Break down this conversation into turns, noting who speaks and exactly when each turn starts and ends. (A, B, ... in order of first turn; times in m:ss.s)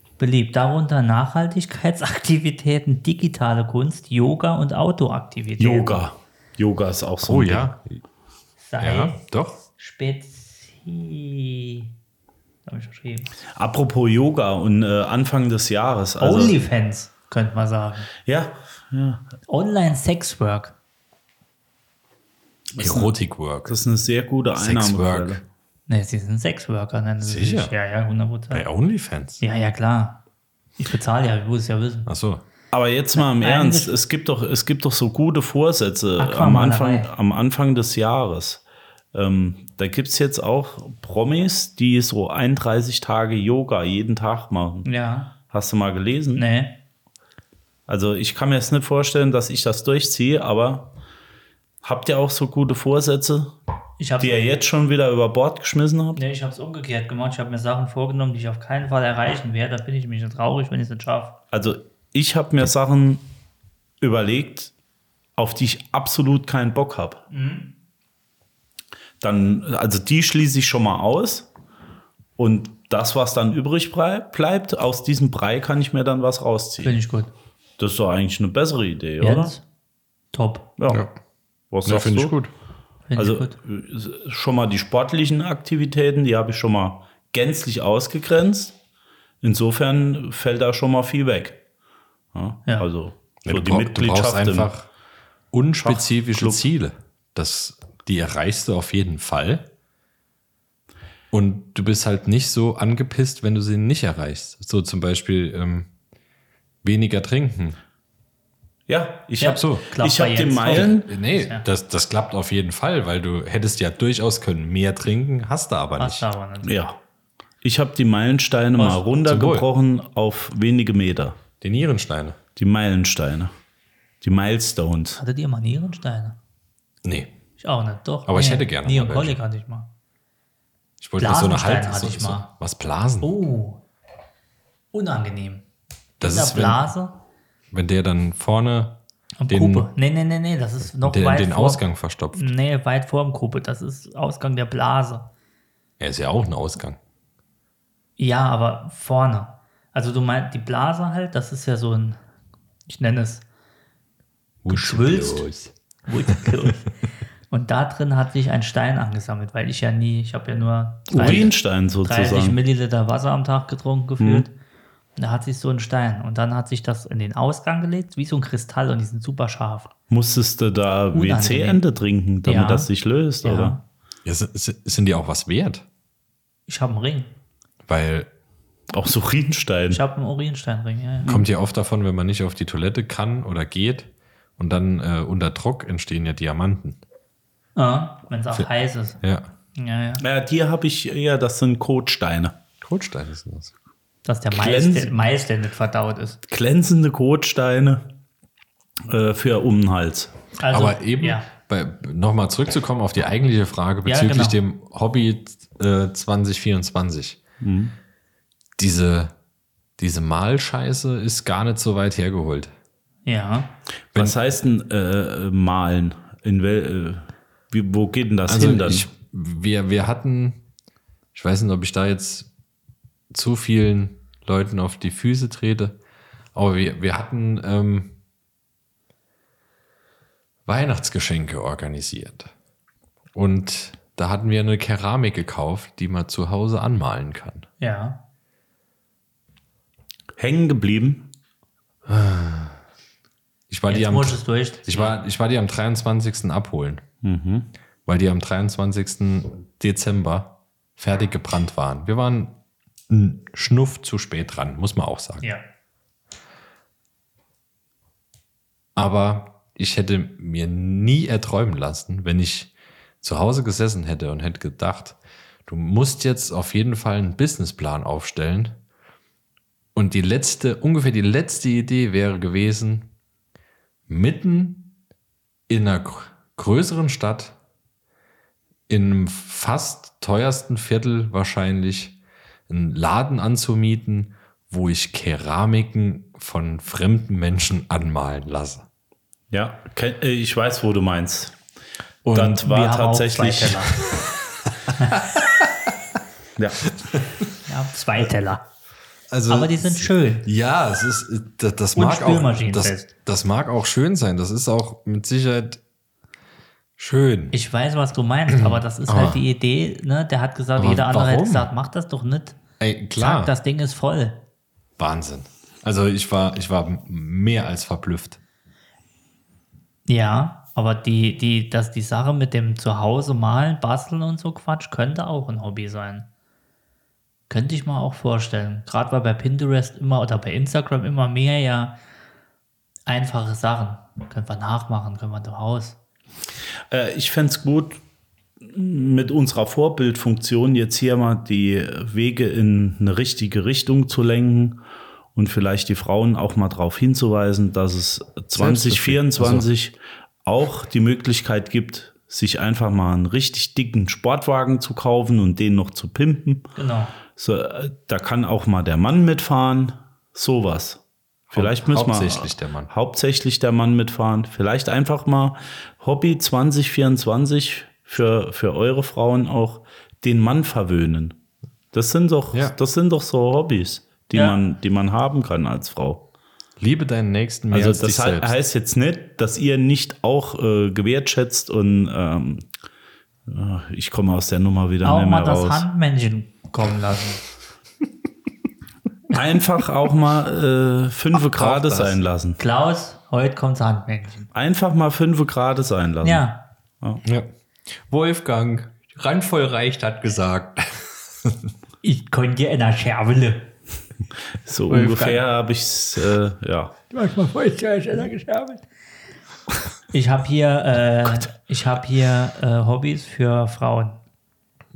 0:00.2-0:06.0 A
0:05.6-0:07.7 B
0:07.2-0:08.0 C
0:08.6-0:09.2 A
0:08.8-0:09.6 C
0:09.8-0:11.9 A
0:12.6-0:13.4 A
0:13.5-0:16.6 B
0:16.2-0:18.1 A
0:18.2-0:19.2 B
0:19.5-0:20.8 A
0:22.8-0:23.1 B
0:22.8-0:23.8 C
0:23.6-0:25.4 B
0:24.6-0:25.4 C
0:25.9-0:28.7 A
0:27.2-0:27.7 C
0:28.5-0:29.4 C
0:29.4-0:30.2 A
0:30.8-0:32.1 A
0:32.0-0:32.4 C
0:32.7-0:38.6 B
0:33.1-0:33.9 A
0:36.2-0:37.1 A
0:39.1-0:44.9 B
0:44.8-0:45.3 A
0:45.5-0:46.4 B
0:46.4-0:46.7 A
0:47.9-0:50.9 B
0:51.8-0:53.5 B
0:54.0-0:54.5 A
0:54.2-0:56.2 B
0:56.1-1:01.3 A
1:01.5-1:03.2 B
1:04.0-1:04.7 B
1:05.4-1:07.2 B
1:07.3-1:07.7 A
1:09.2-1:11.5 B
1:12.4-1:17.0 B
1:16.8-1:17.3 A
1:17.8-1:19.5 B
1:19.2-1:19.6 A
1:20.3-1:20.7 A
1:20.8-1:21.0 B
1:21.7-1:22.4 B
1:21.8-1:22.5 C
1:23.1-1:23.6 A
1:23.2-1:28.8 B
1:29.4-1:31.6 B
1:32.3-1:34.7 B
1:33.4-1:34.9 C
1:35.5-1:39.7 C
1:35.8-1:36.6 B
1:41.3-1:45.9 C
1:46.8-1:47.8 C
1:48.9-1:51.1 B
1:49.4-1:51.6 A
1:49.5-1:49.8 C
1:50.8-1:56.3 C
1:56.0-1:56.8 A
1:56.6-1:57.0 B
1:57.6-2:01.4 B
1:58.8-1:59.0 A
1:59.2-1:59.7 C
2:01.6-2:02.4 C
2:02.6-2:03.5 B
2:04.2-2:05.2 B
2:05.2-2:06.4 A
2:07.0-2:07.3 C
2:07.6-2:09.9 A
2:08.3-2:09.4 C
2:11.0-2:13.4 C
2:11.2-2:12.5 A
2:13.2-2:13.8 A
2:14.9-2:15.6 A
2:16.2-2:16.8 C
2:16.2-2:17.1 A
2:17.7-2:19.0 C
2:19.4-2:25.3 A
2:19.5-2:19.9 C
2:21.0-2:22.5 C
2:26.0-2:27.0 C
2:28.2-2:32.2 A
2:32.9-2:33.4 A
2:34.6-2:35.7 C
2:34.7-2:35.5 A
2:36.0-2:36.9 A
2:37.5-2:41.5 A
2:41.1-2:42.6 B
2:42.0-2:44.5 A
2:44.2-2:44.5 B
2:45.2-2:49.9 A
2:50.1-2:53.8 B
2:51.1-2:51.8 A
2:52.4-2:52.9 A
2:53.4-2:53.8 A
2:54.2-2:55.8 C
2:56.7-2:57.3 A
2:57.8-2:58.3 C
2:58.9-3:00.0 B
2:59.9-3:01.3 A
3:01.3-3:07.0 C
3:07.8-3:09.2 A
3:09.2-3:09.5 C
3:09.8-3:10.2 A
3:10.2-3:12.6 B
3:12.8-3:13.7 C
3:14.2-3:16.4 A
3:14.5-3:15.2 B
3:16.5-3:18.1 B
3:19.1-3:20.4 B
3:20.6-3:21.5 A
3:20.7-3:27.4 C
3:24.0-3:24.6 A
3:27.6-3:27.9 B
3:28.8-3:29.3 C
3:30.0-3:32.7 C
3:33.2-3:33.7 A
3:34.1-3:39.1 B
3:38.5-3:40.6 C
3:41.3-3:42.5 C
3:43.3-3:46.0 C
3:46.5-3:48.2 C
3:50.7-3:52.5 C
3:53.3-3:57.7 C
3:57.8-3:58.2 A
4:00.4-4:01.3 B
4:02.0-4:02.8 C
4:03.7-4:07.0 C
4:03.9-4:05.1 A
4:07.2-4:07.7 B
4:08.0-4:12.5 C
4:13.1-4:15.5 C
4:19.0-4:28.8 C
4:30.0-4:33.1 C
4:34.1-4:34.9 C
4:35.7-4:37.6 C
4:38.9-4:48.8 C
4:49.5-4:51.6 B
4:52.2-4:52.6 C
4:52.3-4:54.0 B
4:52.6-4:54.0 A
4:56.6-4:56.9 B
4:57.6-4:58.6 A
4:59.3-5:05.8 C
4:59.5-5:00.5 A
5:02.0-5:03.1 A
5:07.0-5:07.5 C
5:07.5-5:12.6 A
5:08.5-5:09.4 C
5:10.8-5:11.7 C
5:12.8-5:13.5 C
5:13.2-5:14.4 A
5:15.0-5:18.4 C
5:20.1-5:26.3 A
5:27.5-5:32.0 A
5:33.0-5:36.0 A
5:36.9-5:38.0 B
5:38.6-5:44.8 B
5:45.3-5:56.7 B
5:48.5-5:49.7 C
5:56.8-5:57.1 A
5:57.4-6:01.0 B
6:01.5-6:02.9 C
6:01.5-6:11.4 B
6:11.9-6:16.2 B
6:16.8-6:18.5 C
6:17.7-6:22.7 B
6:23.5-6:25.8 B
6:25.0-6:27.4 A
6:29.3-6:32.6 B
6:31.5-6:32.2 C
6:32.6-6:34.5 A
6:34.5-6:36.4 B
6:36.2-6:36.6 A
6:37.2-6:41.7 C
6:42.0-6:43.7 A
6:44.5-6:47.0 B
6:44.9-6:45.4 A
6:47.1-6:48.8 A
6:50.1-6:54.2 A